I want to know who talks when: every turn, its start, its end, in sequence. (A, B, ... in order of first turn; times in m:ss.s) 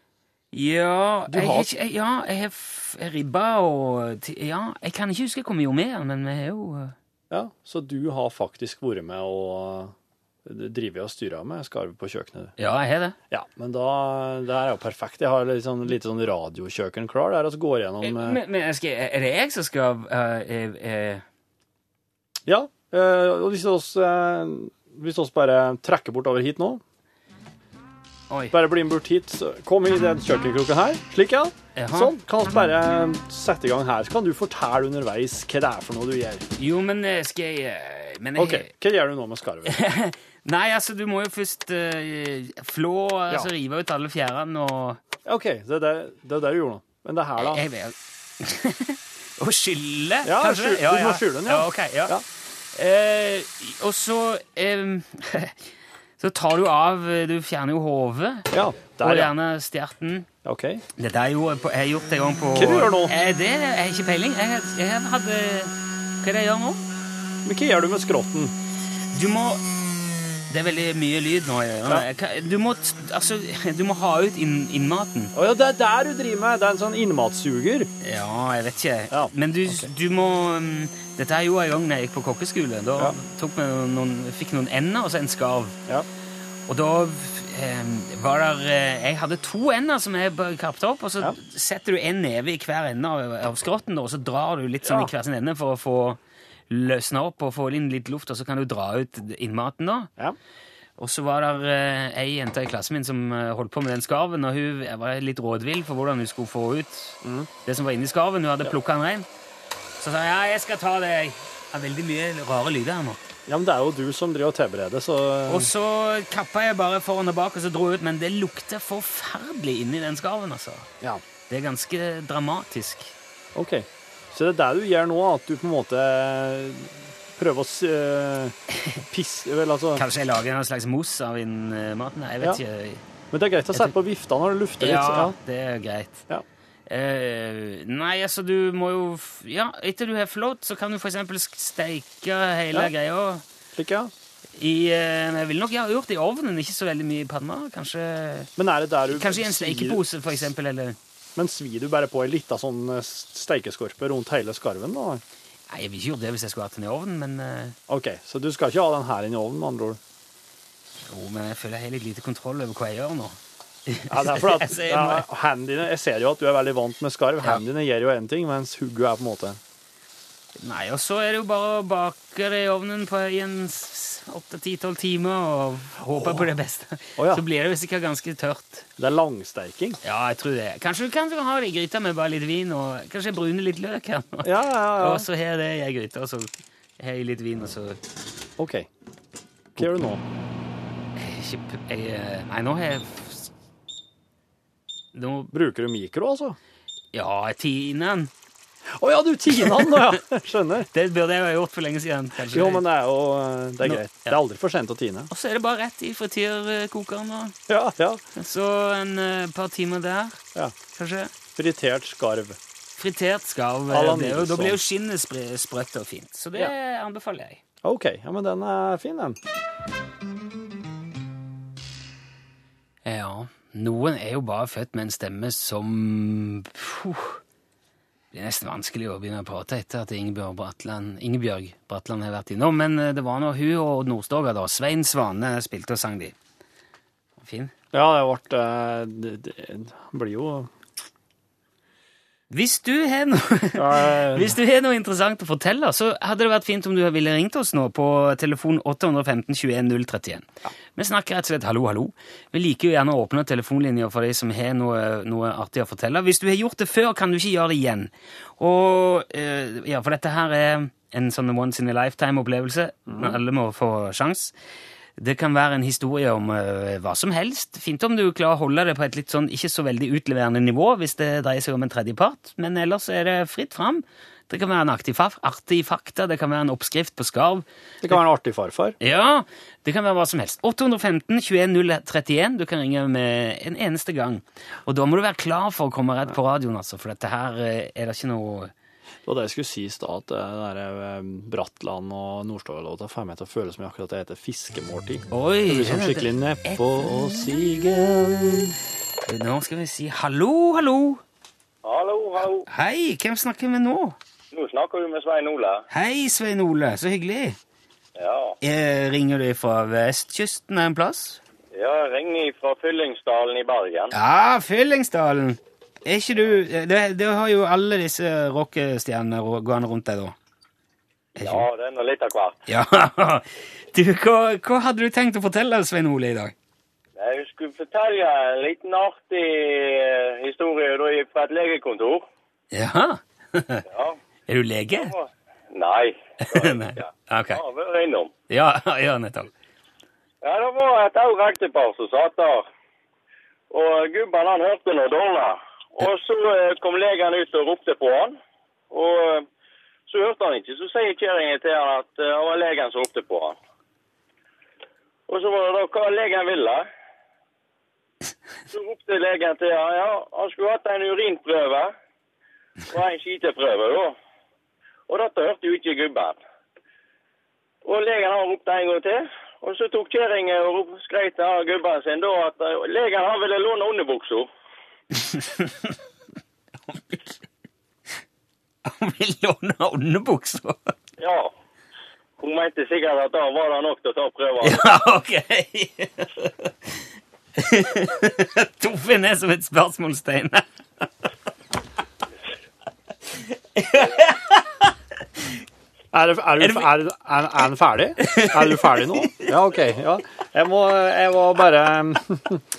0:00.5-0:07.0 A
0:01.3-0:01.7 B
0:07.3-0:09.9 B
0:10.5-0:12.5 B
0:12.6-0:13.2 A
0:13.3-0:18.4 B
0:18.0-0:21.2 A
0:22.5-0:26.8 B
0:28.3-0:28.6 A
0:28.5-0:36.4 B
0:31.8-0:32.2 A
0:36.6-0:38.7 A
0:38.4-0:39.8 B
0:39.7-0:45.0 A
0:45.3-0:47.6 B
0:47.4-0:52.2 A
0:50.2-0:52.2 B
0:52.8-0:55.6 A
0:56.2-1:00.3 A
0:58.5-0:59.3 B
1:00.4-1:00.8 B
1:01.0-1:06.8 A
1:02.6-1:03.1 B
1:07.4-1:08.5 B
1:09.1-1:09.6 A
1:10.5-1:15.3 A
1:15.4-1:17.9 B
1:18.0-1:25.8 A
1:19.1-1:19.9 B
1:26.7-1:36.2 A
1:34.8-1:35.1 B
1:36.7-1:40.1 A
1:41.0-1:49.3 A
1:47.2-1:47.5 B
1:50.0-1:53.2 A
1:53.5-1:55.7 B
1:55.5-2:00.9 A
2:01.5-2:03.1 A
2:03.6-2:08.6 B
2:09.1-2:10.0 B
2:10.0-2:13.0 A
2:13.3-2:15.4 B
2:14.8-2:16.3 A
2:16.9-2:23.4 A
2:23.8-2:24.1 B
2:24.6-2:28.5 A
2:28.6-2:30.0 B
2:29.1-2:31.0 A
2:31.4-2:35.2 B
2:35.7-2:37.8 A
2:37.9-2:40.0 B
2:41.1-2:45.2 A
2:44.1-2:49.6 B
2:50.6-2:58.9 A
2:57.2-2:57.4 B
2:59.0-3:00.0 B
3:00.0-3:08.0 A
3:04.4-3:05.3 B
3:08.6-3:08.9 B
3:09.8-3:10.2 B
3:11.2-3:13.5 A
3:15.1-3:15.5 A
3:15.5-3:16.6 B
3:17.1-3:18.3 A
3:19.0-3:20.9 B
3:19.7-3:20.2 A
3:20.9-3:22.8 A
3:22.5-3:25.3 B
3:23.8-3:24.4 A
3:25.3-3:27.6 A
3:27.7-3:28.2 B
3:28.4-3:30.4 A
3:31.0-3:31.3 A
3:31.6-3:32.6 B
3:33.0-3:37.6 A
3:33.9-3:34.8 B
3:37.8-3:39.4 B
3:43.0-3:47.4 A
3:48.3-3:56.4 A
3:57.4-3:57.7 A
3:57.9-4:00.7 B
4:02.5-4:24.5 A
4:03.8-4:04.6 B
4:23.1-4:23.4 B
4:25.2-4:38.2 A
4:38.0-4:39.0 B
4:39.0-4:48.7 A
4:49.3-4:58.3 B
4:55.3-4:58.7 A
4:59.3-5:01.2 A
5:01.8-5:02.7 C
5:02.7-5:04.2 A
5:04.5-5:05.8 C
5:05.9-5:07.6 A
5:08.2-5:08.6 C
5:08.6-5:11.4 A
5:11.7-5:14.1 C
5:14.1-5:20.4 A
5:21.4-5:21.7 A
5:21.4-5:22.6 C
5:22.7-5:26.5 A
5:27.2-5:32.3 C
5:32.7-5:33.8 A
5:33.9-5:34.2 C
5:34.5-5:35.1 A
5:34.9-5:38.3 C
5:36.4-5:37.6 A
5:38.5-5:39.5 A
5:40.4-5:42.7 C
5:43.7-5:48.4 C
5:48.9-5:49.5 C
5:50.1-5:53.6 C
5:55.3-5:56.9 C
5:58.7-6:01.9 C
6:02.9-6:04.2 C
6:05.1-6:06.4 C
6:07.8-6:14.5 C
6:15.3-6:15.8 A
6:16.9-6:17.4 A
6:18.8-6:20.9 A
6:21.2-6:21.5 C
6:22.4-6:24.8 C
6:24.6-6:26.7 A
6:27.6-6:31.0 A
6:33.8-6:35.6 A
6:36.1-6:42.6 B
6:36.6-6:36.9 A
6:38.2-6:39.6 A